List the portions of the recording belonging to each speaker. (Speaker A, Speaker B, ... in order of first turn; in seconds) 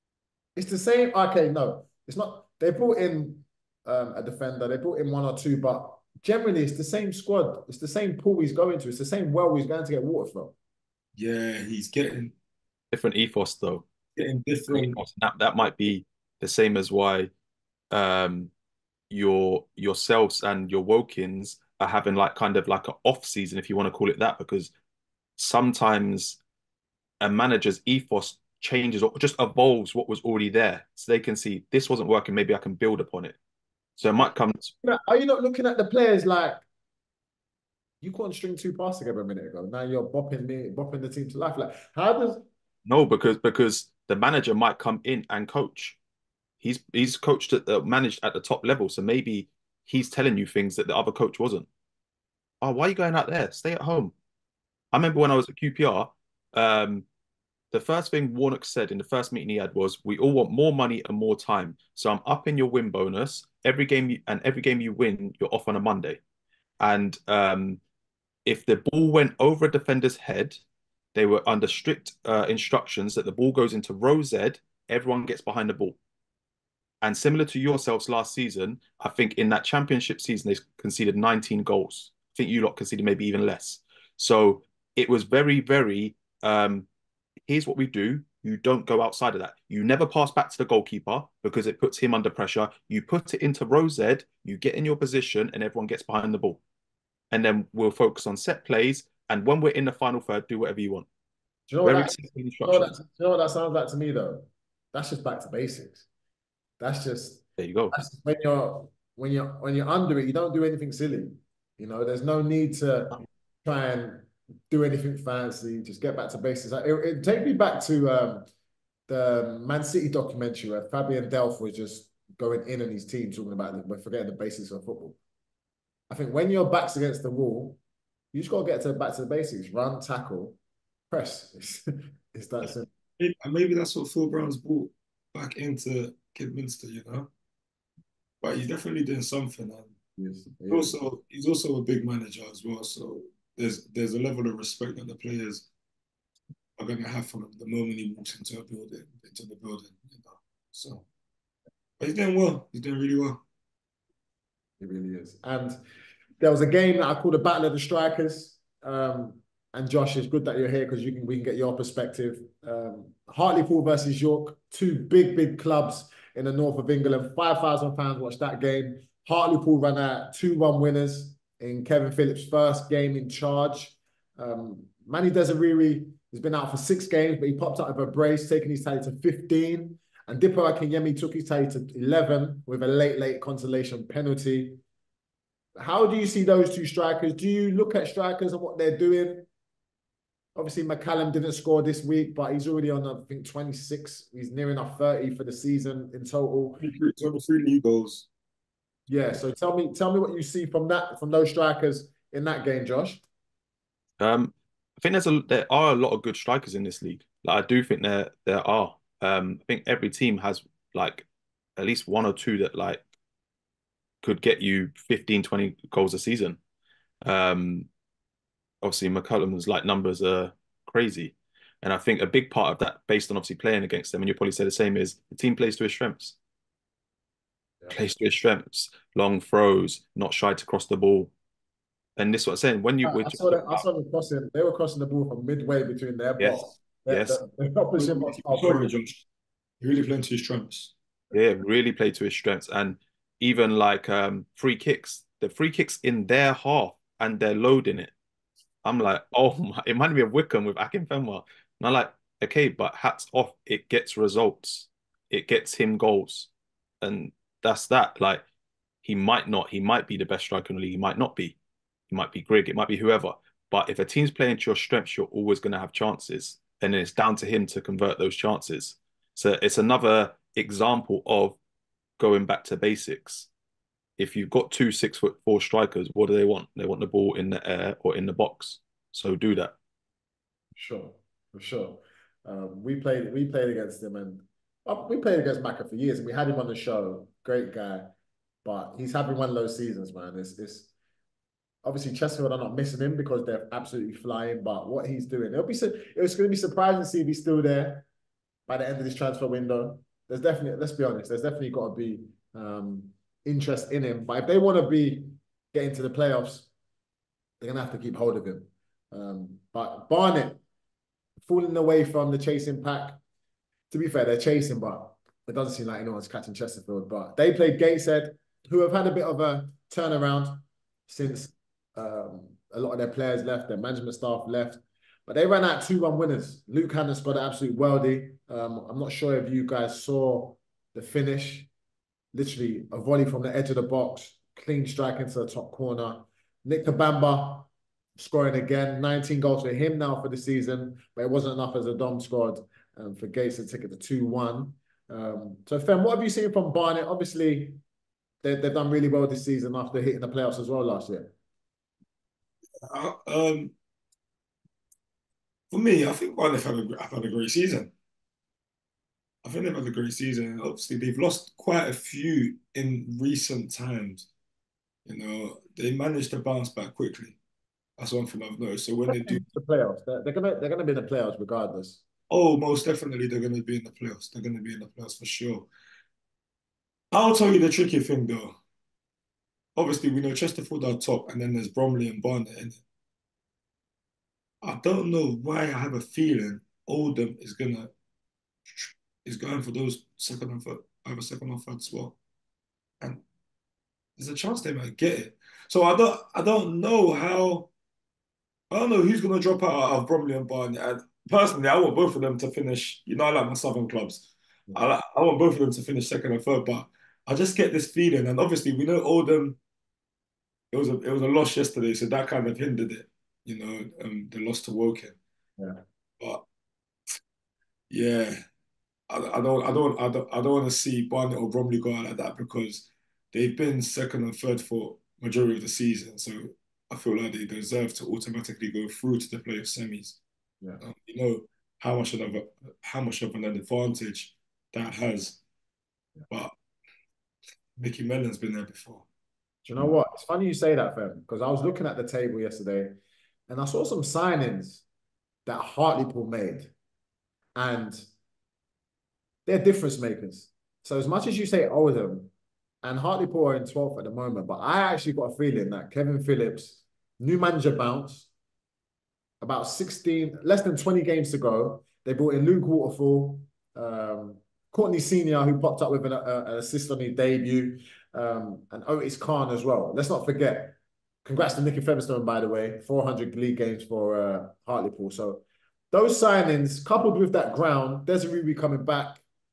Speaker A: 0.6-10.5, 34.2-36.6, 38.0-42.5, 101.7-106.0, 106.8-118.5, 119.1-125.2, 126.1-127.8, 128.3-130.6, 131.1-132.9, 140.2-141.0, 154.8-155.8, 156.4-184.8, 185.8-189.4, 190.5-196.8, 199.1-203.2, 233.0-238.9, 280.7-288.1, 288.6-290.9, 291.8-298.1, 298.7-306.7, 307.6-310.6, 311.4-313.2, 313.9-331.7, 332.3-347.8, 348.4-351.3, 369.1-372.0, 415.6-415.8, 439.6-443.0, 443.5-444.8, 445.4-446.7, 447.6-448.1, 449.4-452.3, 452.8-458.3, 459.4-479.2
Speaker B: 11.2-12.3, 14.2-15.0, 133.2-137.3, 138.4-139.9, 140.7-145.7, 146.8-151.0, 152.0-153.4, 196.8-198.3, 238.0-239.2, 239.8-240.9, 352.8-353.7, 355.7-357.9, 359.4-364.3, 365.1-367.4, 368.0-369.4, 372.3-375.7, 377.1-378.6, 379.8-382.8, 384.6-387.9, 388.7-392.1, 394.2-397.7, 398.7-409.6, 410.7-415.2, 417.9-418.4, 419.1-430.2, 430.8-435.4, 436.3-436.5, 437.8-439.0
Speaker C: 12.9-13.8, 14.7-17.3, 17.9-18.5, 19.1-24.7, 25.4-26.4, 27.2-33.4, 34.0-34.7, 42.9-46.0, 46.6-51.7, 52.6-54.1, 54.9-57.0, 57.7-66.2, 66.8-67.8, 68.5-70.6, 71.1-76.0, 77.0-86.9, 87.5-96.6, 97.3-101.0, 101.8-102.9, 107.6-108.0, 204.2-213.0, 214.2-216.6, 217.2-217.9, 218.8-226.3, 227.9-231.3, 232.2-233.8, 236.4-237.4, 241.3-248.1, 248.8-258.4, 259.0-261.6, 262.1-271.6, 272.2-273.5, 274.2-279.7